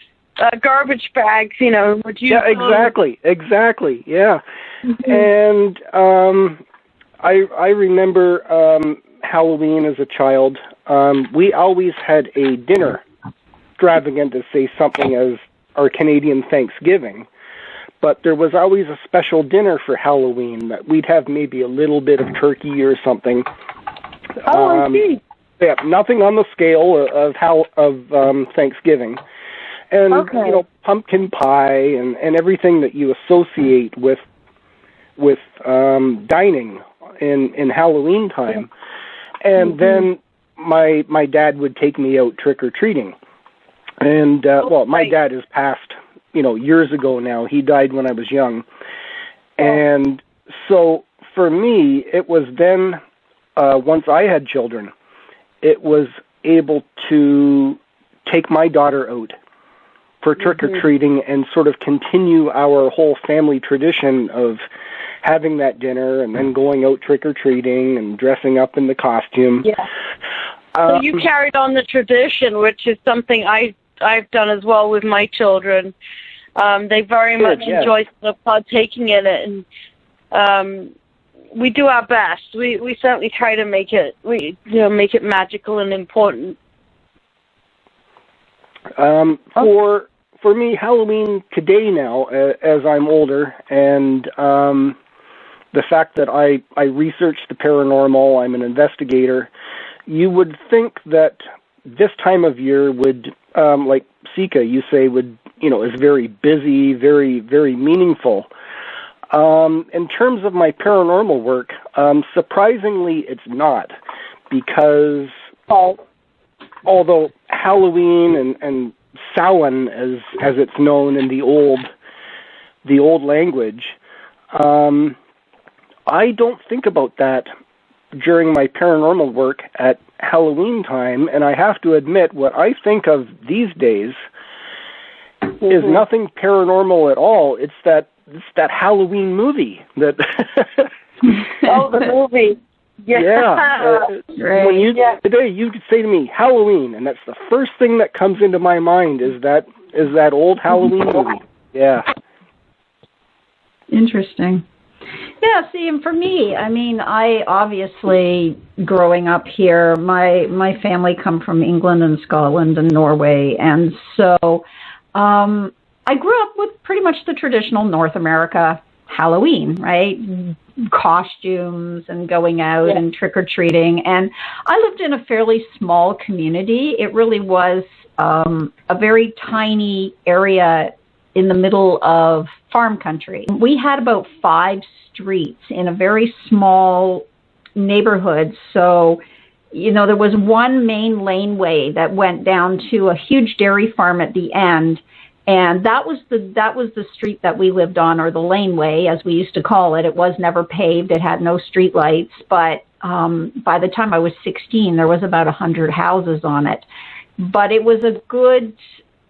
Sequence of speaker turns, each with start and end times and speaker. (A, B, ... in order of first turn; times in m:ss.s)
0:00.4-0:02.9 A
0:02.3-0:04.4 B
0:05.0-0:06.6 B
0:07.2-0:13.0 B
0:13.8-0:17.3 B
0:18.0-0:23.4 B
0:24.4-0:25.0 B
0:24.4-0:25.2 A
0:25.6-0:29.2 B
0:29.9-0:34.2 B
0:30.1-0:30.6 A
0:35.2-0:38.7 B
0:39.4-0:43.1 B
0:39.6-0:40.0 A
0:44.0-0:48.6 B
0:49.6-0:53.0 B
0:53.6-0:54.9 B
0:55.6-0:59.3 B
1:00.2-1:04.6 B
1:05.2-1:09.7 B
1:10.7-1:11.2 B
1:10.8-1:15.9 A
1:16.6-1:19.6 A
1:17.4-1:17.9 B
1:20.3-1:20.9 A
1:21.5-1:26.6 A
1:29.0-1:35.0 B
1:35.7-1:39.5 B
1:40.1-1:48.5 B
1:49.3-1:53.9 B
1:54.5-1:55.3 B
1:55.7-1:56.0 A
1:56.8-2:01.9 B
2:02.8-2:04.0 B
2:04.5-2:05.2 B
2:06.1-2:07.5 B
2:08.1-2:14.2 B
2:15.6-2:16.0 A
2:15.6-2:20.9 B
2:21.6-2:24.1 A
2:23.1-2:32.1 B
2:24.4-2:24.9 C
2:24.9-2:25.2 A
2:33.9-2:34.6 C
2:35.4-3:09.2 C
3:09.7-3:26.8 C
3:27.4-3:28.8 C